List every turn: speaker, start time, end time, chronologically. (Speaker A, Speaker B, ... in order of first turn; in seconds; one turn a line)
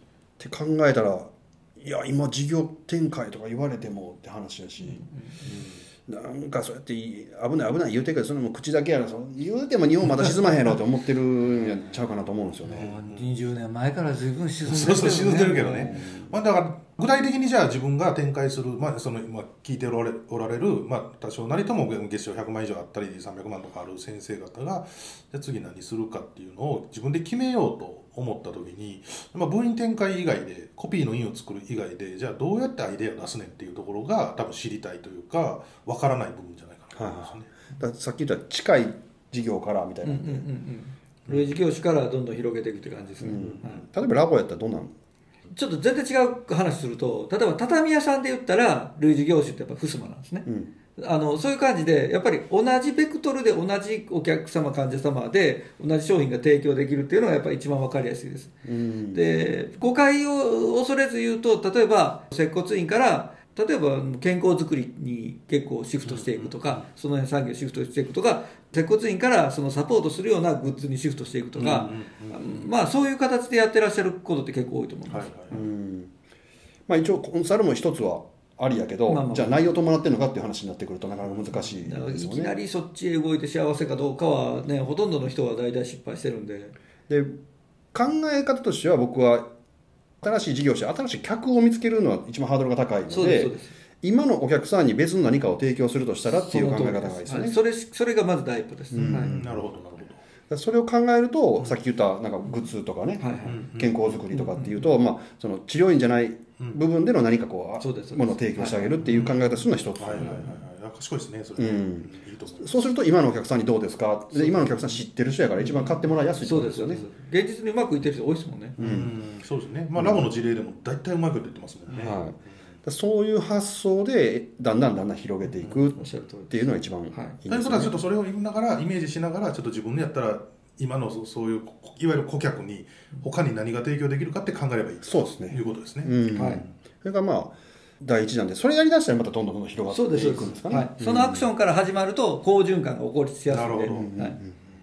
Speaker A: 0.4-12.9
Speaker B: 4.8-5.5
Speaker C: 12.6-13.3
Speaker B: 12.6-16.1
Speaker C: 14.6-37.5
Speaker A: 15.9-16.3
Speaker A: 36.9-40.5
Speaker B: 40.0-43.8
Speaker A: 43.2-44.9
Speaker B: 45.5-75.3
Speaker A: 50.5-50.7
Speaker A: 58.6-59.2
Speaker C: 66.0-66.8
Speaker C: 71.6-72.7
Speaker C: 75.1-75.6
Speaker A: 75.5-76.1
Speaker A: 76.9-82.5
Speaker B: 79.1-79.6
Speaker B: 81.7-86.7
Speaker A: 87.1-87.3
Speaker A: 87.9-89.5
Speaker A: 90.2-97.6
Speaker B: 93.1-93.7
Speaker B: 96.2-99.3
Speaker A: 98.9-99.6
Speaker C: 99.1-100.2
Speaker A: 100.5-110.5
Speaker B: 103.2-103.6
Speaker C: 103.4-104.2
Speaker B: 104.3-104.9
Speaker B: 107.8-109.0
Speaker C: 109.0-109.3
Speaker C: 110.0-113.0
Speaker A: 111.6-117.0
Speaker B: 114.5-115.0
Speaker B: 116.4-118.8
Speaker A: 118.8-119.1
Speaker C: 118.8-122.3
Speaker A: 120.0-120.3
Speaker A: 121.9-127.9
Speaker B: 125.9-127.4
Speaker C: 127.5-136.2
Speaker A: 135.0-141.5
Speaker B: 136.3-136.6
Speaker B: 139.9-144.4
Speaker C: 143.5-144.1
Speaker A: 143.9-144.6